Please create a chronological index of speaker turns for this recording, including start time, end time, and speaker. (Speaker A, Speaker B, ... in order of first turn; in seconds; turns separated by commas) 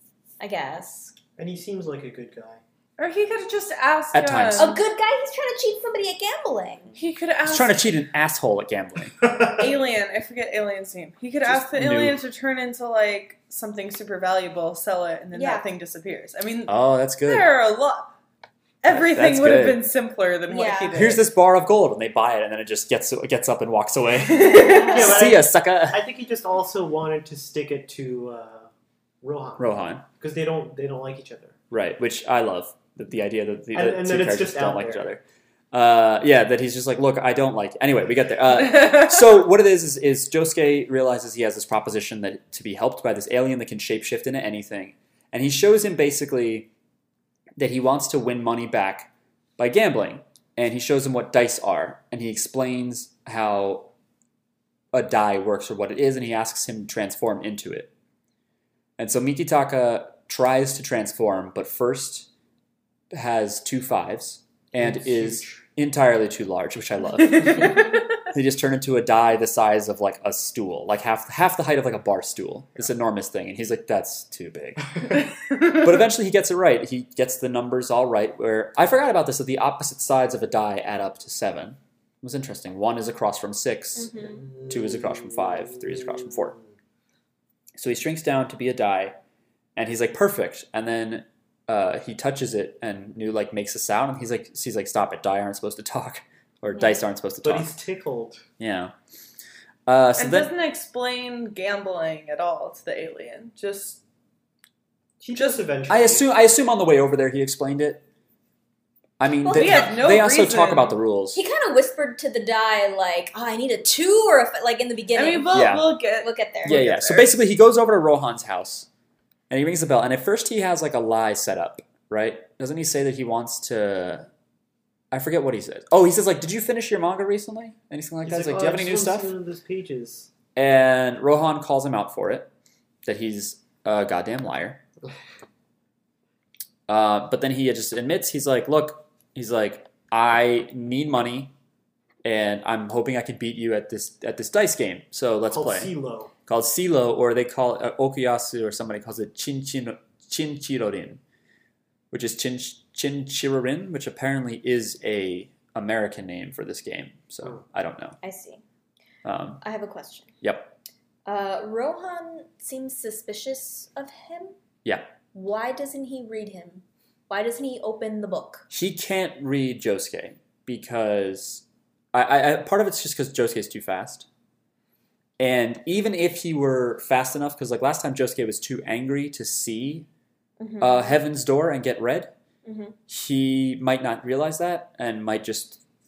Speaker A: 0.4-1.1, Speaker B: 1.4-2.6, Speaker C: 3.0-4.8, Speaker D: 4.1-4.7, Speaker A: 4.5-7.0, Speaker C: 6.9-7.8, Speaker D: 7.4-9.2, Speaker C: 9.3-18.1, Speaker D: 11.4-12.2, Speaker A: 15.3-15.7, Speaker D: 16.7-17.5, Speaker C: 18.8-21.2, Speaker D: 18.9-19.8, Speaker A: 20.5-21.2, Speaker D: 20.9-26.0, Speaker C: 24.2-25.2, Speaker A: 24.5-24.9, Speaker B: 24.8-28.7, Speaker B: 29.2-31.6, Speaker D: 29.6-30.0, Speaker D: 31.7-46.7, Speaker B: 33.7-35.1, Speaker D: 47.6-53.9, Speaker D: 54.9-57.9, Speaker D: 59.0-62.3, Speaker D: 63.1-75.0, Speaker B: 64.7-65.6, Speaker C: 67.4-67.8, Speaker D: 75.6-84.2, Speaker A: 84.0-84.5, Speaker B: 84.5-85.9, Speaker D: 84.7-86.5, Speaker D: 87.8-89.2, Speaker D: 89.8-97.7, Speaker B: 97.4-98.4, Speaker D: 98.6-98.9, Speaker D: 99.9-100.5, Speaker C: 100.2-104.0, Speaker B: 105.2-106.3, Speaker D: 105.9-108.0, Speaker D: 109.2-111.4, Speaker A: 109.4-110.0, Speaker C: 109.5-111.0, Speaker A: 111.3-117.3, Speaker C: 115.1-117.0, Speaker D: 115.5-116.0, Speaker D: 116.6-118.9, Speaker D: 119.5-124.3, Speaker D: 125.1-129.3, Speaker B: 128.2-130.3, Speaker D: 130.5-132.5, Speaker D: 133.0-134.8, Speaker D: 136.9-141.5, Speaker D: 142.2-145.9, Speaker B: 145.5-146.3, Speaker D: 146.5-151.2, Speaker D: 152.1-158.2, Speaker A: 158.2-158.6, Speaker D: 159.2-159.6, Speaker A: 159.6-160.3, Speaker D: 160.4-160.8, Speaker A: 161.2-164.6, Speaker D: 164.8-165.1, Speaker A: 165.3-168.7, Speaker D: 168.7-174.2, Speaker D: 175.4-180.1, Speaker A: 180.6-181.2, Speaker D: 180.8-182.3, Speaker A: 182.6-182.9, Speaker D: 183.1-185.8